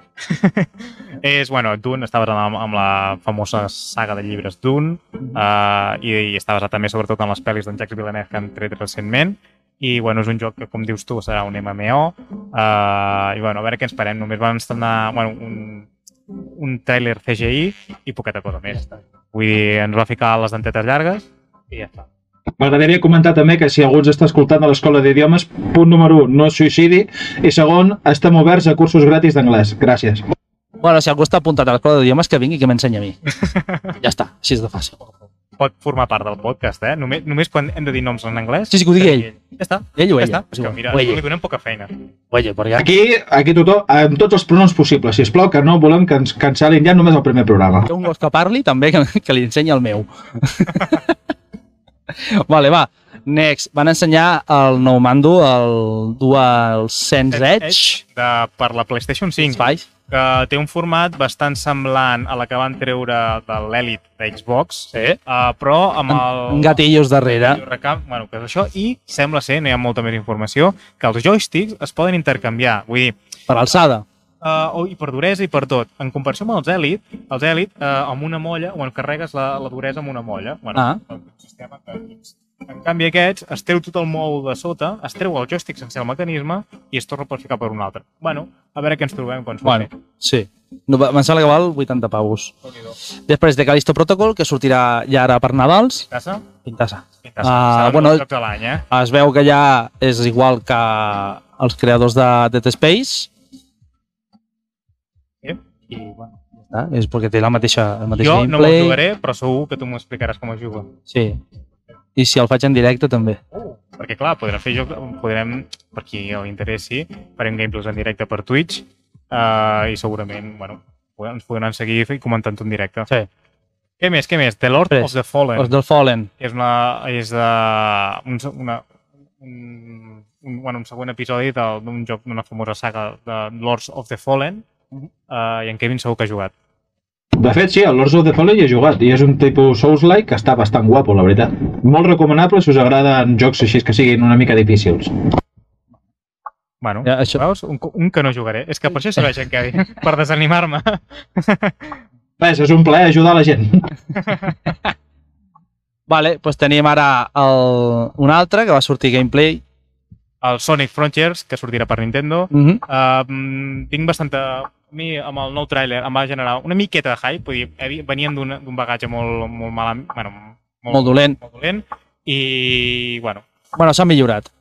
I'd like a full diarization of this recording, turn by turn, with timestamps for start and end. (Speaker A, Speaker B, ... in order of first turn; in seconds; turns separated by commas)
Speaker A: 0.2-22.0, Speaker B: 18.7-19.0, Speaker C: 22.6-30.2, Speaker B: 30.8-33.2, Speaker A: 33.4-33.9, Speaker B: 34.0-35.0, Speaker A: 35.6-41.9, Speaker B: 38.7-39.3, Speaker B: 39.9-41.2, Speaker B: 42.3-42.9, Speaker C: 42.7-47.9, Speaker B: 47.9-51.1, Speaker B: 52.1-58.0, Speaker A: 57.3-73.1, Speaker B: 59.4-59.9, Speaker B: 64.9-65.2, Speaker B: 66.1-67.6, Speaker B: 73.5-74.0, Speaker A: 74.4-89.9, Speaker B: 80.7-81.0, Speaker B: 89.6-92.5, Speaker A: 92.7-93.0, Speaker B: 93.3-96.1, Speaker A: 96.1-96.5, Speaker B: 96.6-98.2, Speaker A: 97.2-98.8, Speaker B: 98.9-103.3, Speaker B: 105.9-109.0, Speaker A: 108.1-110.9, Speaker B: 111.1-111.4, Speaker B: 112.2-113.4, Speaker A: 113.5-123.1, Speaker A: 124.0-125.7, Speaker B: 124.9-126.3, Speaker A: 126.4-128.8, Speaker A: 129.4-134.6, Speaker A: 135.3-136.5, Speaker C: 137.4-145.1, Speaker A: 146.8-152.0, Speaker B: 147.0-147.4, Speaker C: 152.4-153.9, Speaker A: 154.2-154.5, Speaker B: 156.1-159.6, Speaker A: 160.4-173.4, Speaker B: 162.5-162.8, Speaker B: 170.9-171.4, Speaker B: 173.7-174.5